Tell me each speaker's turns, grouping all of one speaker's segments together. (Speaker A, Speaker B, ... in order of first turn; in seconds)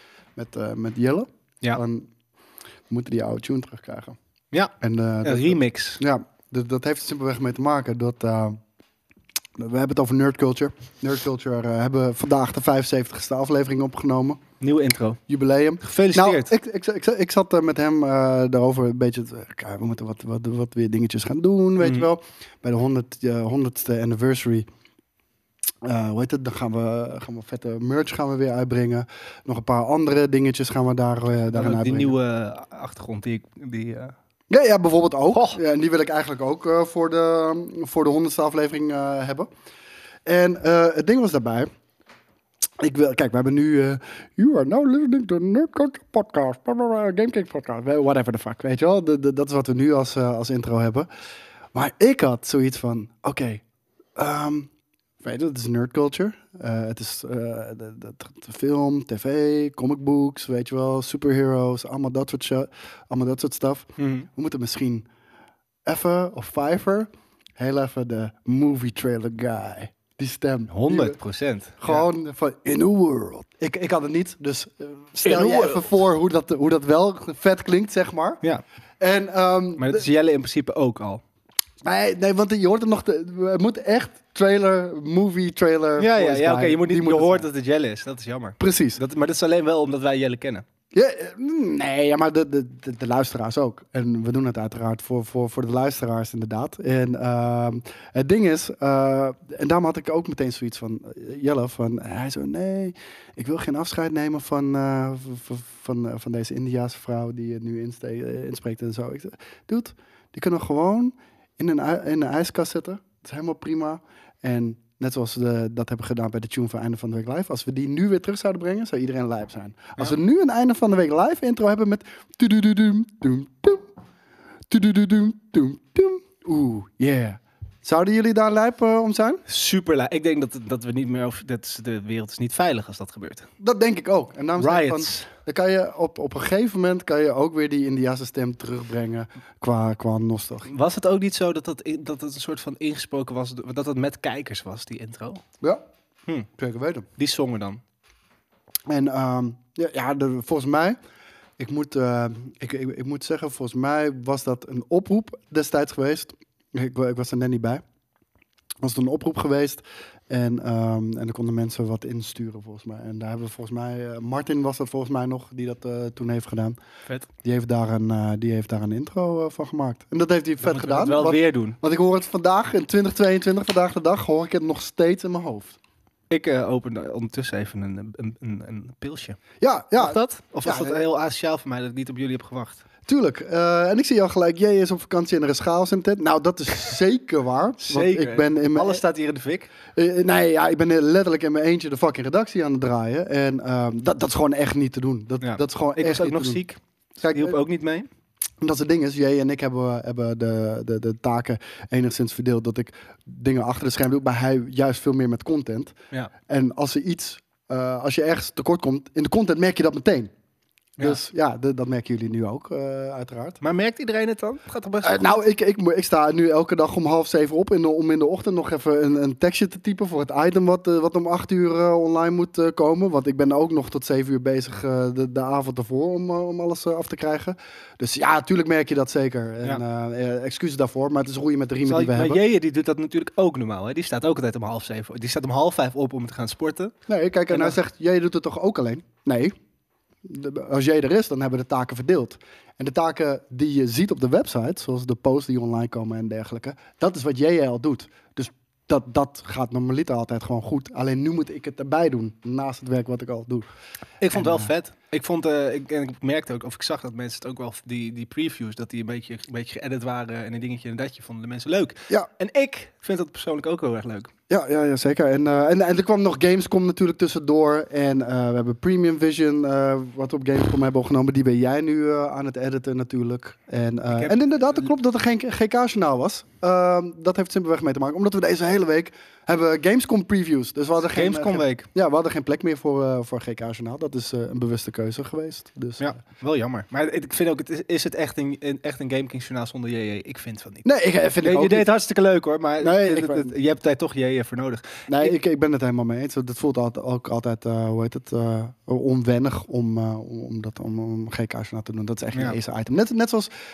Speaker A: 0.4-2.1, 2.9-4.2, 4.8-8.6, 9.6-14.4, 15.3-24.7, 25.8-32.1, 34.5-39.5, 40.3-41.7, 42.8-51.1, 51.7-53.6, 54.2-65.1, 65.8-71.2, 71.8-78.4, 79.0-80.1, 81.8-87.5, 88.6-89.0, 90.9-123.9, 124.7-129.4, 133.6-140.7, 146.6-147.1, 148.9-151.0, 151.6-157.8, 158.8-166.8, 167.4-175.8, 179.6-181.0, 183.1-189.0, 189.9-196.6, 197.2-197.6, 198.6-205.9, 206.5-210.3, 211.0-213.6, 215.0-232.4, 237.1-239.6, 240.2-253.7, 254.3-254.7, 264.5-286.1, 290.8-291.9, 292.8-293.5, 295.1-303.5
Speaker B: 5.2-6.0, 14.6-15.2, 15.8-16.5, 21.8-22.1, 31.5-34.1, 35.3-35.6, 64.0-64.3, 70.7-72.1, 75.2-75.8, 79.8-81.2, 86.0-90.7, 129.5-133.5, 134.6-135.3, 140.7-145.4, 147.2-147.8, 170.6-171.8, 176.3-179.4, 180.0-182.8, 187.8-189.7, 195.4-198.1, 213.6-215.3, 231.8-236.9, 237.5-237.8, 254.2-264.3, 274.1-274.9, 281.1-281.9, 286.0-290.8, 291.4-295.3